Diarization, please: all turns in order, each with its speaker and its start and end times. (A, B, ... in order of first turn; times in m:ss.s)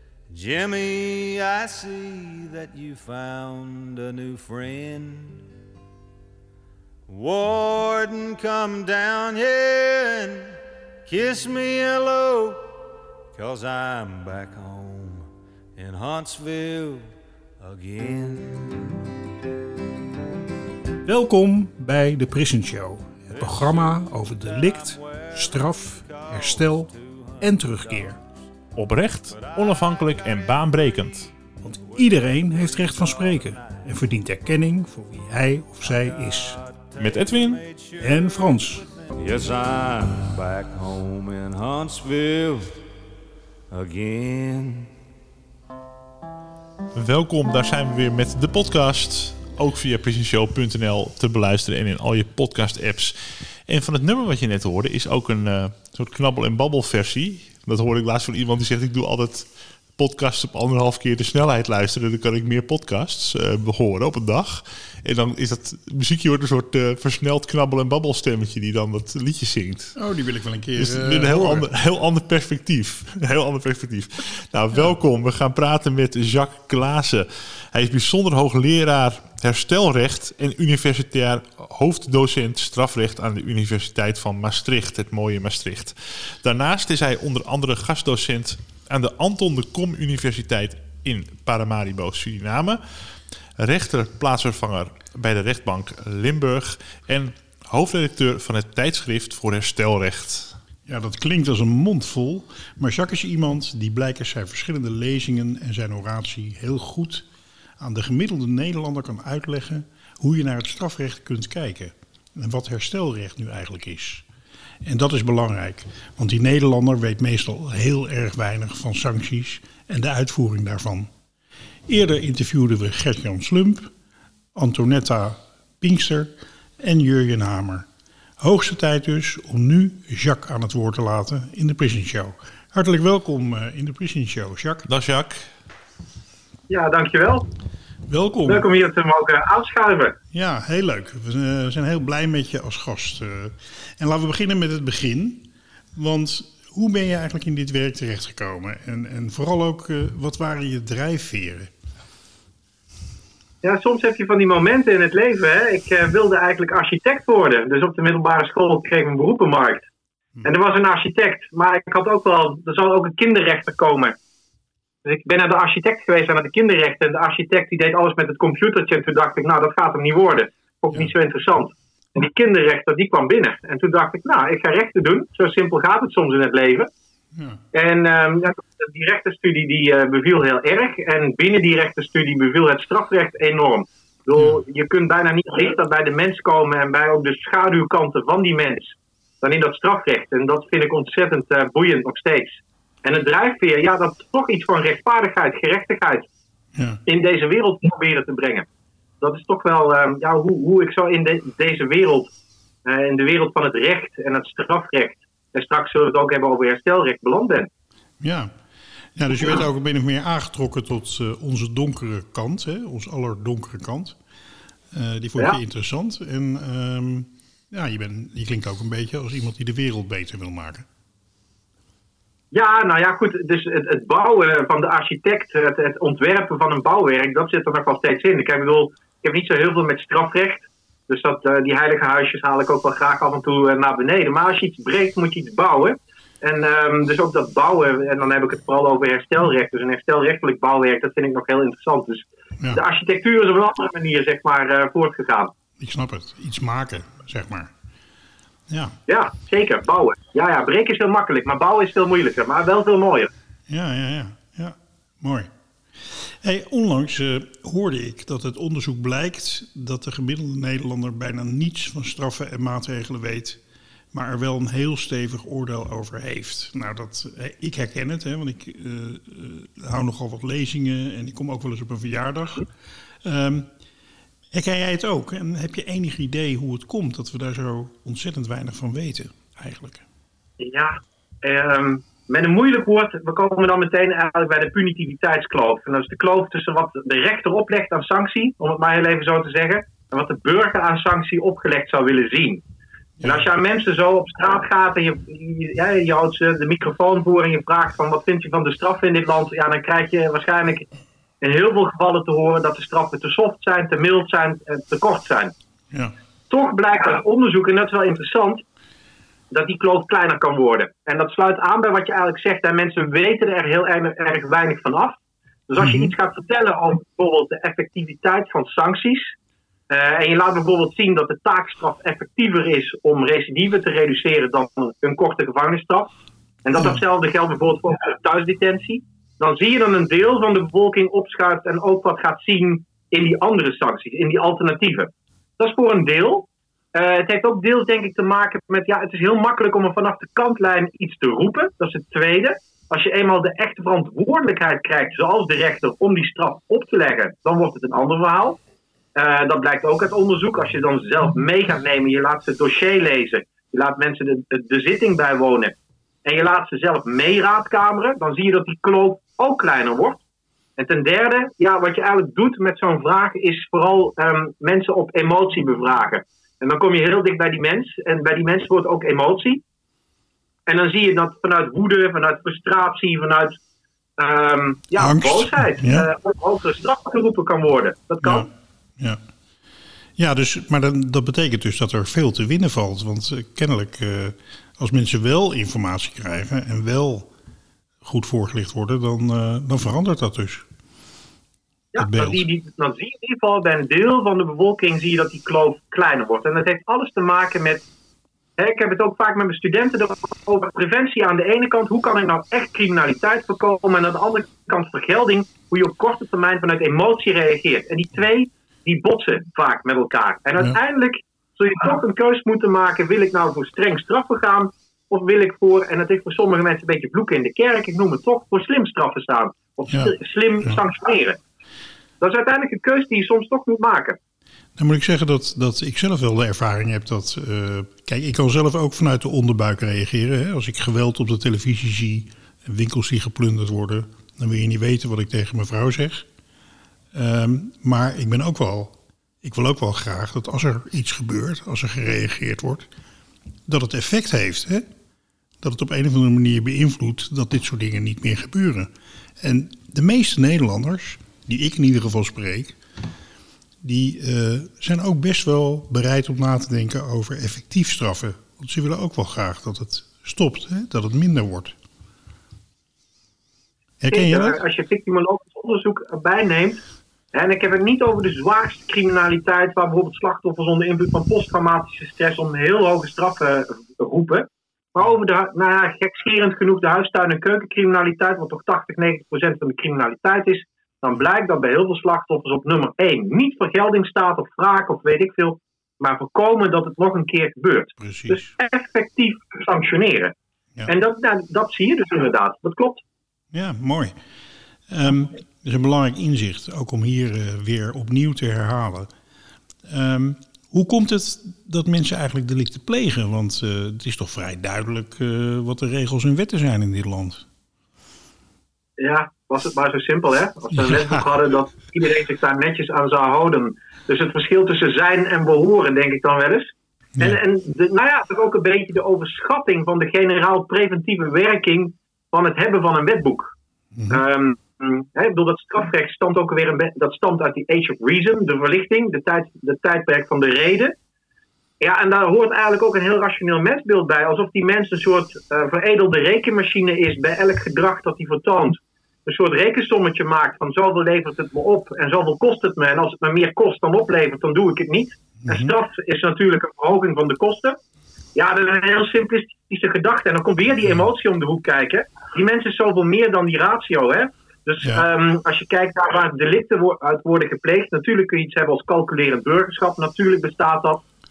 0:00.3-0:05.4 A
0:07.1-0:12.7 A
0:13.3-0:19.0 A
0:21.0-0:28.2 B
0:23.3-0:28.3 A
0:28.7-0:31.3 C
0:29.3-0:33.9 A
0:31.6-0:36.6 B
0:35.8-0:42.8 A
0:37.0-0:37.6 C
0:38.0-0:38.8 B
0:43.7-0:44.9 A
0:46.9-1:10.0 C
1:09.9-1:11.7 B
1:10.8-1:40.6 C
1:40.8-1:47.3 B
1:47.8-1:54.2 B
1:54.8-2:01.1 B
2:01.9-2:03.9 B
2:04.5-2:07.8 B
2:08.4-2:14.9 B
2:14.9-2:15.5 C
2:16.7-2:17.4 D
2:18.1-2:18.7 B
2:18.4-2:20.2 D
2:20.3-2:31.7 B
2:33.6-2:39.9 D
2:40.4-2:44.1 D
2:45.0-2:56.9 D
2:57.3-2:57.6 B
2:57.7-3:16.3 D
3:04.3-3:04.6 B
3:16.7-3:17.0 B
3:17.0-3:18.6 D
3:19.2-3:22.3 D
3:22.8-3:27.7 D
3:28.2-3:28.5 B
3:29.1-3:34.2 B
3:34.9-3:40.8 B
3:42.5-4:05.5 D
4:05.8-4:07.7 B
4:08.7-4:09.0 B
4:09.1-4:13.3 D
4:13.7-4:23.6 B
4:24.1-4:32.7 B
4:33.2-4:33.7 B
4:34.5-4:40.0 B
4:40.6-4:52.6 D
4:53.2-4:53.4 B
4:53.2-5:00.8 D
5:01.4-5:05.5 D
5:06.5-5:08.6 D
5:09.5-5:19.3 D
5:15.8-5:16.1 B
5:19.9-5:26.1 D
5:26.6-5:48.6 D
5:49.2-6:00.2 D
6:00.8-6:09.6 D
6:10.7-6:13.6 D
6:14.2-6:18.5 D
6:15.0-6:16.1 B
6:18.2-6:19.2 B
6:20.2-6:27.3 B
6:28.0-6:30.6 B
6:31.9-6:37.8 D
6:32.0-6:32.4 B
6:38.6-7:01.4 D
6:59.9-7:00.8 B
7:02.2-7:04.2 D
7:04.8-7:16.2 B
7:17.1-7:22.9 B
7:23.7-7:24.8 B
7:25.6-7:32.8 B
7:33.8-7:41.8 B
7:44.0-7:44.6 B
7:44.1-7:46.8 D
7:47.3-8:10.3 D
8:08.0-8:08.5 B
8:10.8-8:13.0 D
8:13.5-8:14.1 B
8:14.9-8:19.1 B
8:19.8-8:27.4 B
8:29.0-8:43.5 D
8:30.7-8:31.2 B
8:43.9-8:44.2 B
8:44.1-8:50.9 D
8:51.8-9:07.8 D
9:05.4-9:05.7 B
9:08.3-9:21.0 D